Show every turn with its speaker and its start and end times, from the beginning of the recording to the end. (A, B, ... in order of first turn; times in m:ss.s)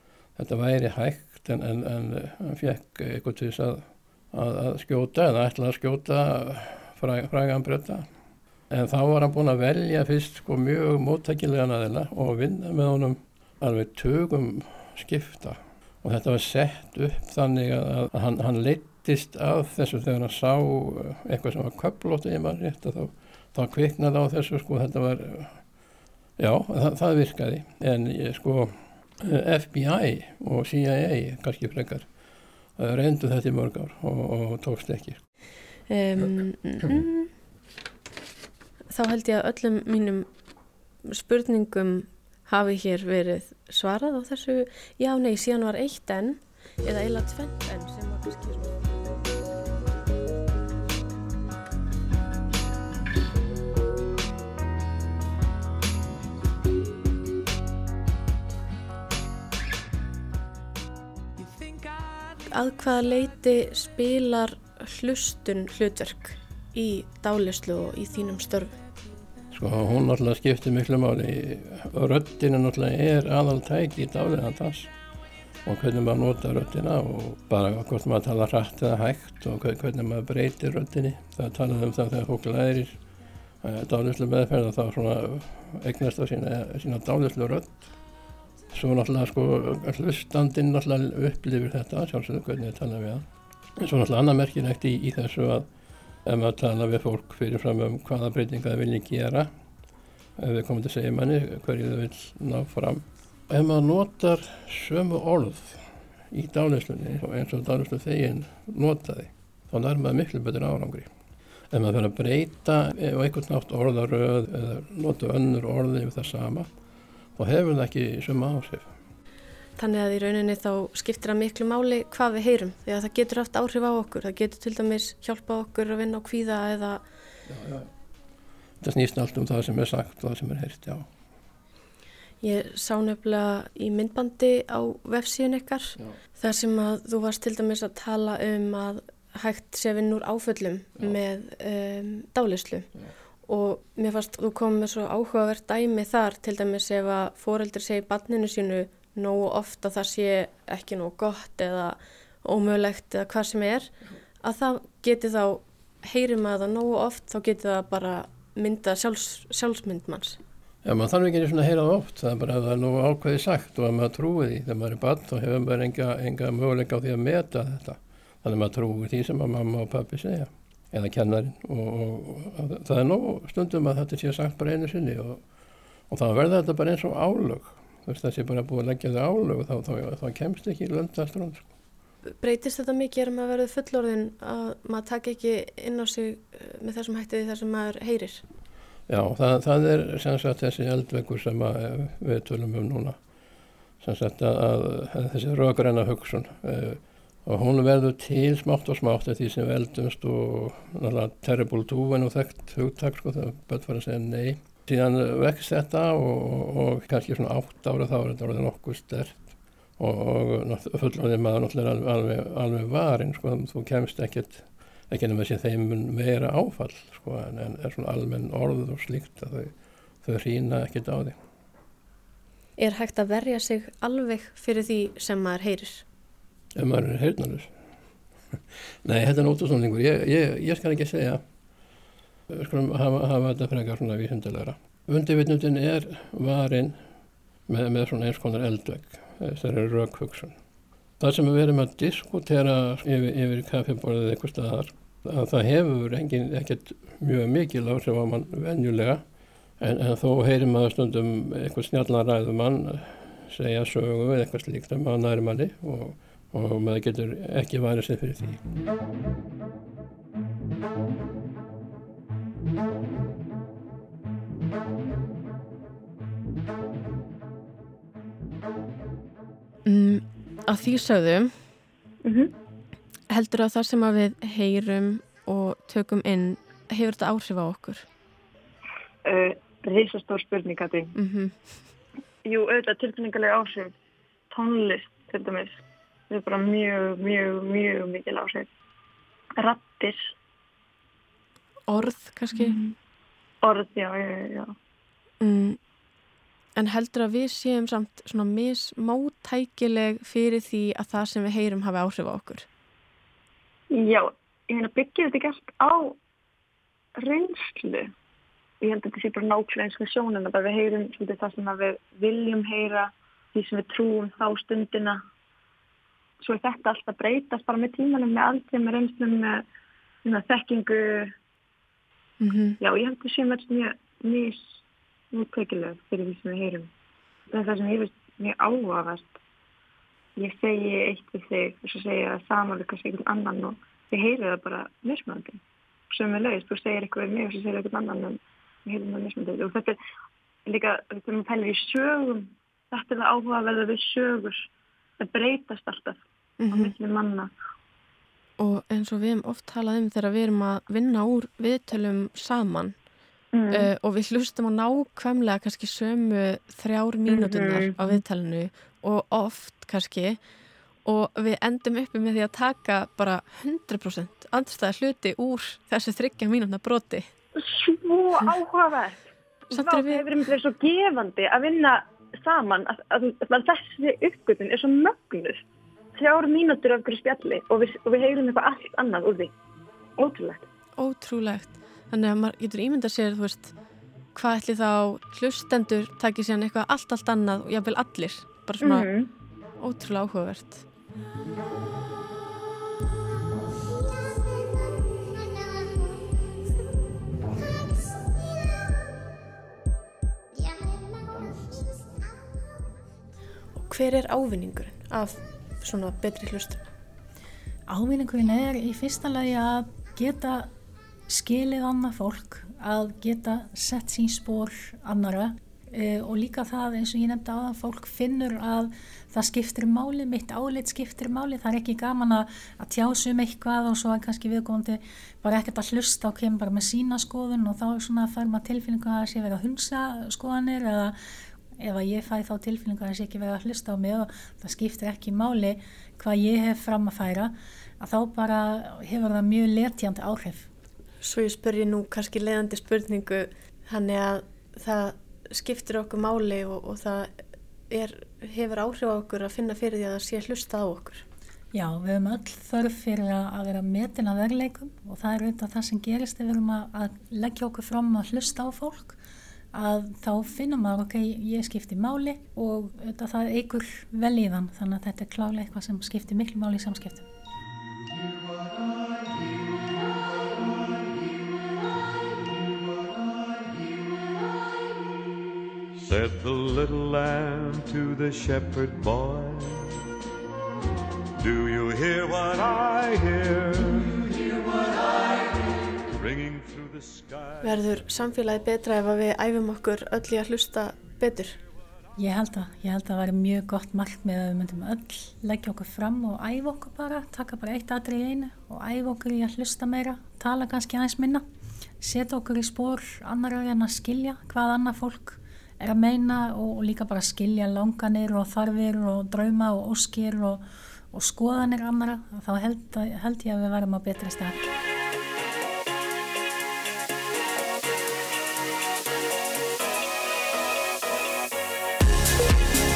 0:00.4-0:08.1 A
0:08.7-0:25.6 A
0:26.4-0:32.0 A
0:32.8-0:35.2 A
0:35.9-0:37.3 B
0:38.9-0:40.3 B
0:41.0-0:49.0 B
1:02.5-1:08.8 B
1:09.5-1:14.9 A
1:15.7-1:23.0 A
1:23.6-1:27.8 A
1:28.7-1:33.2 A
1:33.8-1:35.7 A
1:36.2-1:39.5 A
1:40.4-1:51.1 A
1:51.7-1:56.7 A
1:57.4-1:58.9 A
1:59.8-2:07.0 B
2:07.5-2:07.9 A
2:08.8-2:11.1 A
2:12.4-2:22.9 B
2:23.5-2:40.4 B
2:40.8-2:55.4 A
2:56.1-3:01.7 A
3:02.3-3:08.4 B
3:09.1-3:13.2 A
3:14.0-3:41.4 A
3:42.8-3:46.0 B
3:46.8-3:47.7 A
3:49.0-3:51.4 A
3:52.5-3:57.0 A
3:57.7-4:00.6 A
4:01.2-4:09.2 A
4:09.8-4:18.6 A
4:29.8-4:31.5 B
4:32.2-4:32.5 C
4:33.3-4:38.1 B
4:39.2-4:41.1 C
4:41.2-4:41.8 B
4:42.5-4:43.9 C
4:44.5-4:48.7 C
4:49.6-4:50.3 C
4:51.9-4:52.8 B
4:52.5-4:52.9 C
4:53.6-4:54.7 C
4:55.4-4:55.8 B
4:56.8-5:02.7 B
5:03.9-5:06.2 C
5:07.2-5:08.1 C
5:08.8-5:15.2 C
5:16.4-5:19.6 C
5:20.2-5:21.3 C
5:22.4-5:22.8 B
5:22.8-5:24.8 C
5:25.3-5:26.9 C
5:27.5-5:29.3 C
5:30.4-5:40.0 C
5:40.7-5:44.7 C
5:45.2-5:47.5 C
5:46.6-5:46.9 B
5:48.6-5:53.0 B
5:53.5-5:53.9 C
5:53.7-6:00.4 B
5:57.3-5:58.2 C
6:01.0-6:07.3 B
6:07.6-6:15.6 C
6:09.7-6:10.3 B
6:16.2-6:19.5 C
6:20.2-6:20.6 C
6:21.0-6:23.7 B
6:24.4-6:29.1 B
6:28.8-6:29.3 C
6:29.8-6:30.8 B
6:43.8-6:46.9 B
6:47.9-6:50.7 D
6:51.3-7:11.2 D
7:11.8-7:20.7 D
7:21.2-7:31.2 B
7:31.7-7:39.2 D
7:39.7-7:47.3 D
7:48.3-7:49.7 E
7:50.5-7:50.7 E
7:53.0-7:53.4 E
7:56.1-7:59.9 E
8:01.4-8:05.3 E
8:06.1-8:07.9 E
8:07.6-8:11.6 B
8:12.2-8:21.4 D
8:22.0-8:34.6 D